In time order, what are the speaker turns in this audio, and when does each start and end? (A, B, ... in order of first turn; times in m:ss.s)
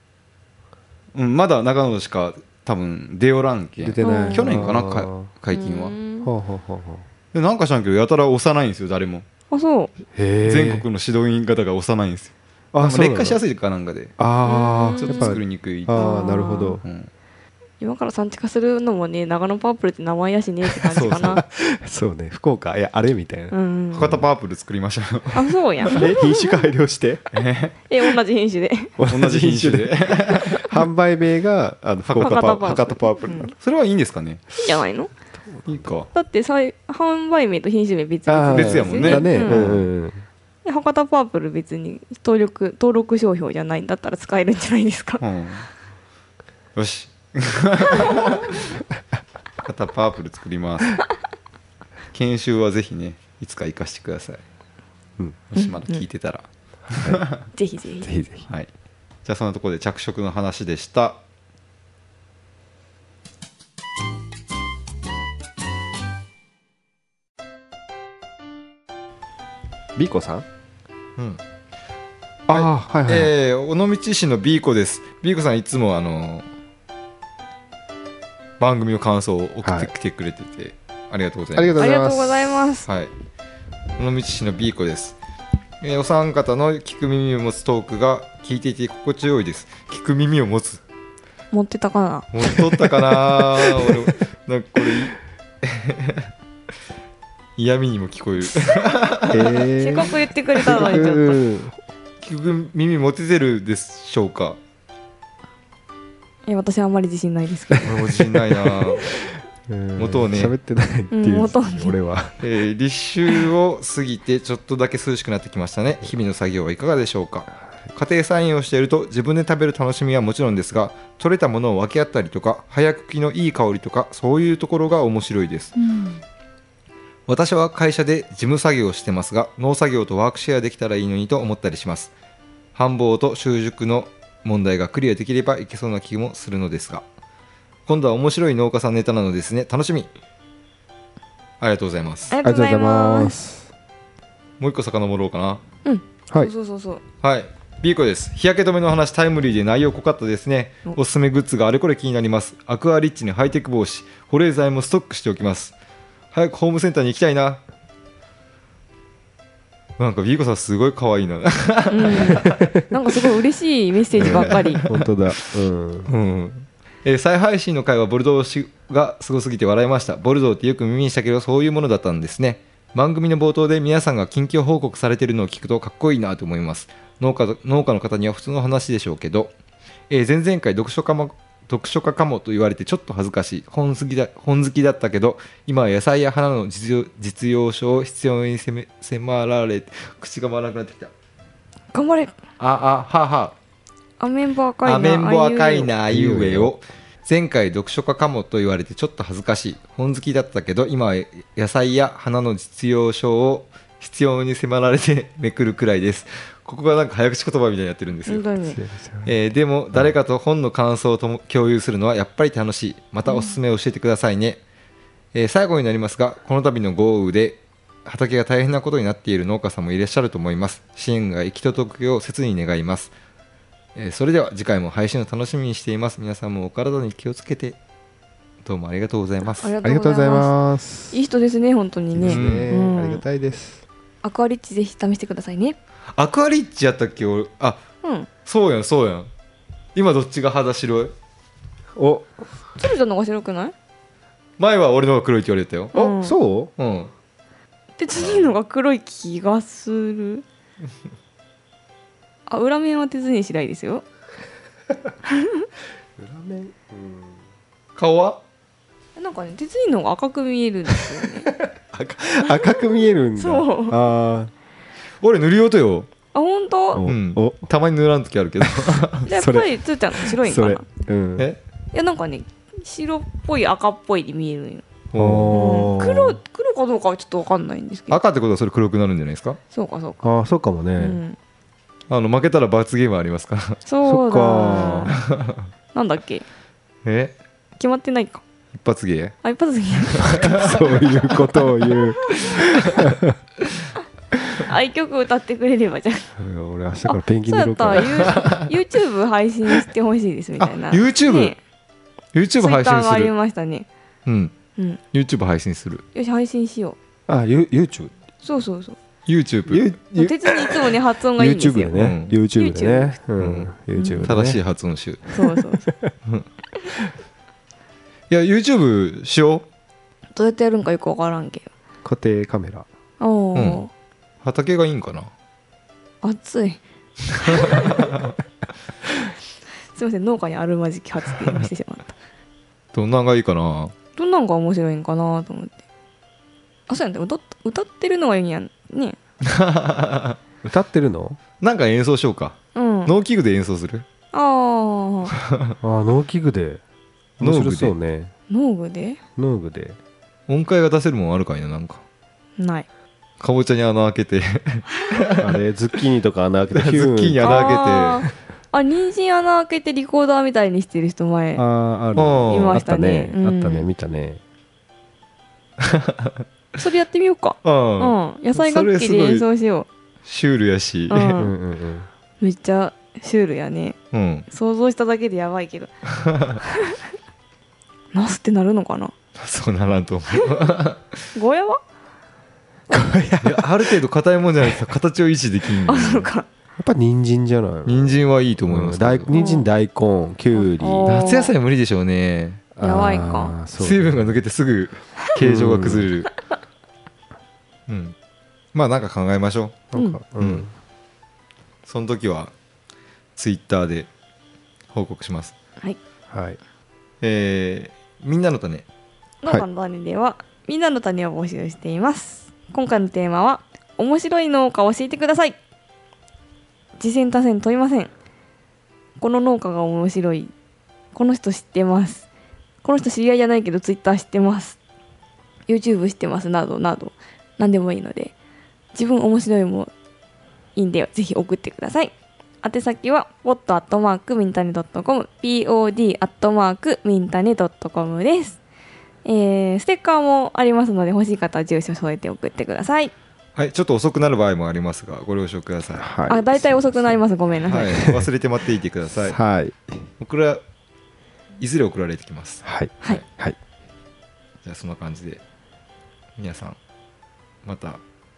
0:01.1-0:06.0 A
0:03.8-0:05.3 B
0:04.0-0:04.7 C
0:05.5-0:06.3 C
0:06.2-0:07.0 B
0:07.3-0:09.2 A
0:09.5-0:09.9 C
0:10.1-0:10.8 B
0:10.4-0:14.1 A
0:12.7-0:13.4 B
0:14.2-0:16.8 B
0:14.4-0:15.4 C
0:15.0-0:16.2 A
0:15.9-0:16.8 C
0:16.8-0:17.1 A
0:17.8-0:21.4 C
0:20.9-0:21.4 A
0:20.9-0:23.5 B
0:23.5-0:24.2 C
0:23.9-0:26.1 A
0:25.3-0:26.6 C
0:25.9-0:27.3 B
0:27.3-0:27.8 A
0:27.9-0:29.0 C
0:29.0-0:33.5 B
0:29.1-0:30.8 A
0:32.0-0:32.6 A
0:32.2-0:33.5 C
0:33.5-0:34.5 A
0:34.5-0:35.1 C
0:35.5-0:35.9 B
0:35.6-0:36.1 A
0:36.1-0:39.6 C
0:38.3-0:40.2 B
0:38.5-0:39.8 A
0:40.6-0:45.2 C
0:45.2-0:45.7 A
0:46.7-0:48.6 A
0:49.6-0:51.0 A
0:52.1-0:54.4 A
0:55.5-0:57.4 A
0:55.5-0:56.0 C
0:57.5-0:58.1 C
0:58.0-0:58.5 B
0:59.2-1:01.2 A
1:10.0-1:10.4 B
1:12.5-1:13.3 B
1:12.5-1:16.5 A
1:18.6-1:21.8 A
1:19.6-1:19.9 B
1:21.5-1:22.6 B
1:21.8-1:22.9 C
1:22.8-1:23.1 A
1:24.0-1:25.2 A
1:25.8-1:30.8 A
1:31.5-1:32.3 C
1:32.3-1:36.3 A
1:33.1-1:34.1 B
1:37.6-1:39.6 A
1:39.3-1:41.7 B
1:39.8-1:41.4 C
1:42.2-1:44.6 A
1:46.4-1:47.9 C
1:47.8-1:52.4 B
1:47.8-1:49.1 A
1:50.0-1:50.5 A
1:51.1-1:51.9 C
1:52.4-2:05.7 A
2:07.3-2:12.1 A
2:12.7-2:17.0 A
2:17.9-2:20.1 A
2:21.6-2:22.3 A
2:22.3-2:23.3 C
2:22.4-2:23.7 B
2:24.6-2:25.6 A
2:25.8-2:27.0 C
2:27.2-2:35.7 A
2:36.3-2:37.6 A
2:40.0-2:42.7 A
2:41.9-2:44.8 C
2:44.1-2:46.1 B
2:44.2-2:45.5 A
2:46.0-2:59.5 A
3:00.1-3:11.1 A
3:11.9-3:12.3 C
3:12.6-3:13.5 A
3:14.2-3:15.9 C
3:14.8-3:28.5 A
3:16.1-3:16.7 B
3:28.3-3:28.8 C
3:28.6-3:29.3 B
3:29.2-3:34.6 A
3:33.3-3:33.6 C
3:35.3-3:43.1 A
3:43.9-3:47.8 A
3:48.6-3:49.7 A
3:49.6-3:50.5 C
3:49.8-3:51.2 B
3:51.1-3:53.2 C
3:52.1-3:53.8 B
3:52.2-3:52.7 A
3:54.2-3:55.8 C
3:56.2-3:57.8 A
3:58.0-3:58.3 C
3:58.4-3:59.3 A
3:59.9-4:01.1 A
4:02.0-4:02.3 B
4:02.8-4:03.7 C
4:04.6-4:05.9 A
4:05.9-4:06.4 C
4:05.9-4:06.7 B
4:06.8-4:07.1 A
4:08.0-4:10.4 C
4:08.2-4:08.5 A
4:12.5-4:14.0 C
4:15.3-4:15.6 C
4:16.2-4:17.4 B
4:18.0-4:18.4 A
4:19.2-4:21.5 C
4:21.0-4:24.5 B
4:22.4-4:24.0 C
4:25.2-4:26.1 A
4:26.3-4:27.1 C
4:26.9-4:27.7 B
4:27.0-4:29.3 A
4:28.6-4:31.5 B
4:29.3-4:30.8 C
4:31.9-4:34.8 C
4:35.1-4:35.9 A
4:35.1-4:36.4 B
4:35.5-4:38.2 C
4:38.1-4:39.6 A
4:39.7-4:40.3 C
4:40.2-4:41.2 B
4:41.0-4:41.4 C
4:42.1-4:43.8 A
4:43.8-4:45.2 C
4:44.0-4:45.1 B
4:45.2-4:45.6 A
4:45.9-4:46.4 C
4:47.0-4:47.4 A
4:47.8-4:48.4 C
4:48.7-4:49.3 A
4:49.4-4:52.5 C
4:50.2-4:51.2 A
4:50.5-4:53.4 B
4:52.4-4:53.0 A
4:54.6-4:56.3 C
4:56.4-4:58.5 B
4:57.1-5:01.6 C
4:58.3-4:58.6 A
5:00.9-5:01.5 A
5:02.3-5:03.3 A
5:02.6-5:03.8 C
5:04.2-5:04.5 A
5:05.1-5:06.0 A
5:06.1-5:07.0 C
5:07.3-5:08.1 B
5:08.4-5:09.0 C
5:09.2-5:09.9 A
5:09.7-5:14.6 B
5:10.2-5:13.2 C
5:11.9-5:12.3 A
5:13.4-5:13.7 A
5:13.9-5:14.3 C
5:14.2-5:15.3 A
5:15.3-5:15.9 C
5:15.4-5:16.1 B
5:18.3-5:19.6 A
5:20.3-5:21.7 C
5:22.0-5:22.9 B
5:23.2-5:23.9 C
5:23.5-5:23.8 A
5:24.4-5:25.3 A
5:26.2-5:26.8 C
5:27.4-5:28.3 A
5:27.5-5:28.0 C
5:29.9-5:32.1 C
5:31.4-5:31.7 A
5:32.9-5:33.9 A
5:34.2-5:35.8 C
5:36.9-5:39.2 C
5:39.4-5:40.4 A
5:40.6-5:41.4 B
5:41.6-5:44.0 A
5:42.7-5:43.1 C
5:44.3-5:45.3 C
5:45.8-5:46.8 B
5:47.4-5:48.3 B
5:47.4-5:47.9 A
5:48.5-5:49.2 C
5:49.4-5:50.0 B
5:50.5-5:52.0 A
5:52.6-5:52.8 C
5:53.4-5:55.4 A
5:55.4-5:58.2 B
5:56.7-5:58.2 A
5:57.4-6:01.6 C
6:01.6-6:04.4 B
6:02.2-6:02.8 A
6:02.5-6:03.9 C
6:05.8-6:06.4 A
6:06.8-6:09.9 C
6:07.6-6:09.4 A
6:10.2-6:11.4 A
6:11.1-6:11.5 C
6:11.3-6:12.1 B
6:12.4-6:14.0 C
6:14.1-6:14.5 A
6:14.5-6:15.9 C
6:16.1-6:16.6 A
6:16.6-6:17.0 C
6:18.1-6:19.1 C
6:19.4-6:21.2 A
6:21.3-6:21.8 C
6:22.9-6:23.9 B
6:23.4-6:26.3 A
6:25.9-6:26.4 C
6:26.8-6:31.1 B
6:27.8-6:29.3 A
6:29.3-6:29.7 C
6:30.5-6:31.5 C
6:31.0-6:32.6 A
6:32.8-6:34.4 B
6:32.8-6:33.5 C
6:33.8-6:36.3 A
6:35.4-6:36.1 B
6:37.9-6:38.1 A
6:38.7-6:39.8 A
6:39.9-6:40.7 B
6:40.4-6:40.6 A
6:41.8-6:42.5 A
6:43.4-6:44.1 A
6:44.9-6:45.5 A
6:46.3-6:46.6 B
6:47.2-6:48.8 A
6:49.4-6:55.6 C
6:57.0-6:58.1 C
6:59.2-7:00.5 C
7:01.1-7:02.2 C
7:02.8-7:04.8 C
7:05.7-7:08.3 C
7:08.9-7:09.9 C
7:10.8-7:18.6 C
7:19.2-7:23.1 C
7:23.6-7:26.0 A
7:26.0-7:27.1 B
7:26.3-7:27.9 C
7:27.7-7:29.4 A
7:28.0-7:28.2 B
7:29.2-7:30.0 B
7:30.2-7:30.6 A
7:31.6-7:33.2 A
7:32.6-7:33.6 B
7:34.6-7:35.4 A
7:36.4-7:36.8 A
7:37.6-7:38.0 A